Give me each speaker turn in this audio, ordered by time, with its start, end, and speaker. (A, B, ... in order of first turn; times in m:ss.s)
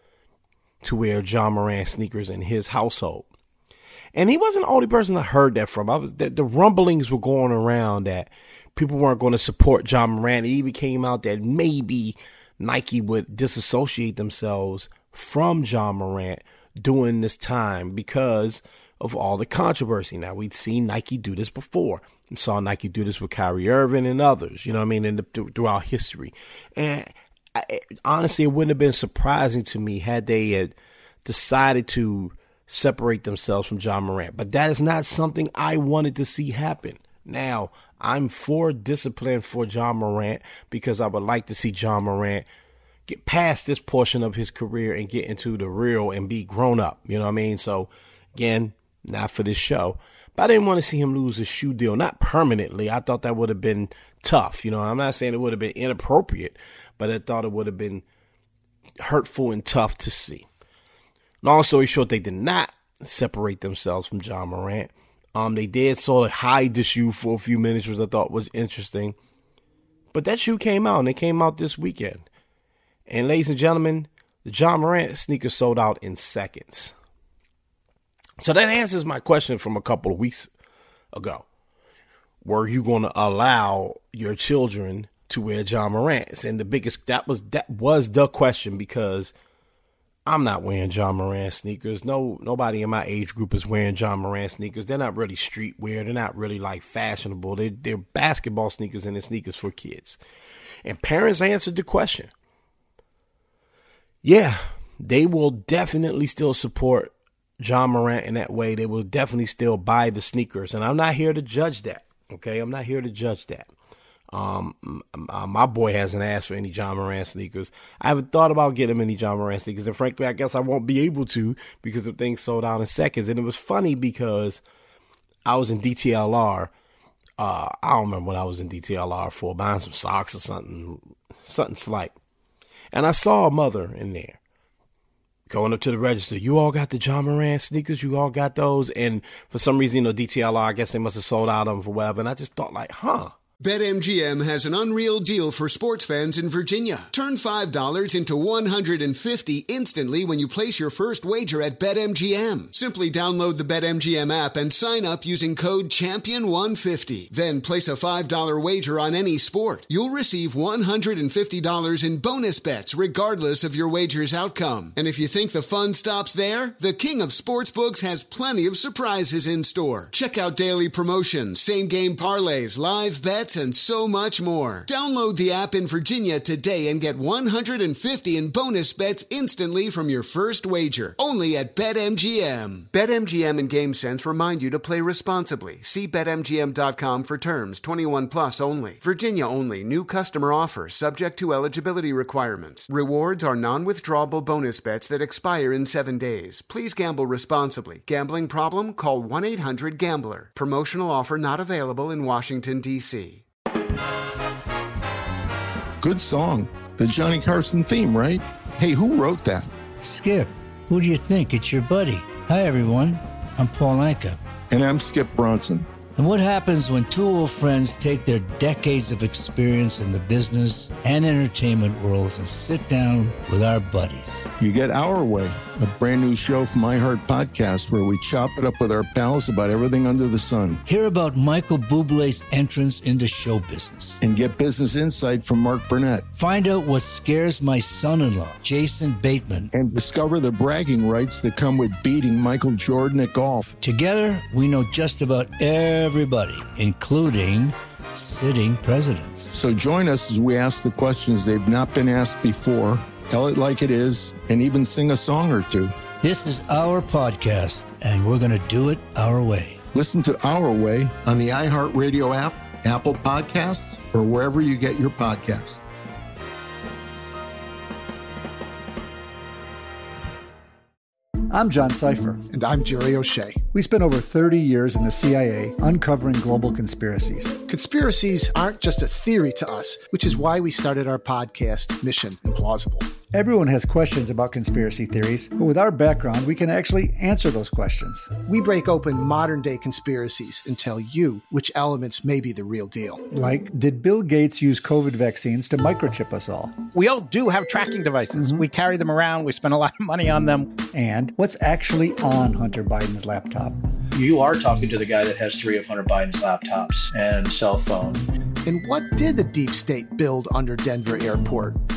0:00.8-0:03.3 A
0:04.1-0:30.7 A
0:31.2-0:42.5 A
0:43.1-0:58.0 A
0:59.0-1:00.4 A
1:01.4-1:09.2 A
1:10.1-1:12.2 A
1:13.1-1:16.9 A
1:18.4-1:20.5 A
1:21.1-1:21.4 A
1:22.4-1:29.3 A
1:30.2-1:40.2 A
1:40.8-1:42.3 A
1:44.2-1:53.7 A
1:54.3-2:04.6 A
2:05.4-2:06.7 A
2:07.4-2:12.1 A
2:12.9-2:14.4 A
2:15.5-2:23.3 A
2:23.6-3:23.4 B
3:26.0-3:29.7 C
3:30.0-3:34.4 D
3:34.7-3:35.9 C
3:36.2-3:44.5 D
3:44.6-3:50.8 C
3:50.9-3:54.2 D
3:54.2-3:56.2 C
3:56.4-3:59.7 D
3:59.7-4:03.7 C
4:03.8-4:09.5 D
4:09.5-4:15.9 C
4:16.2-4:19.8 D
4:19.9-4:25.8 C
4:31.5-4:32.4 E
4:32.5-4:33.6 F
4:33.7-4:37.6 E
4:37.7-4:43.1 F
4:43.3-4:48.4 E
4:48.4-4:53.2 F
4:53.3-4:56.7 E
4:56.9-5:00.7 G
5:00.9-5:03.8 E
5:04.1-5:08.2 H
5:08.6-5:11.8 F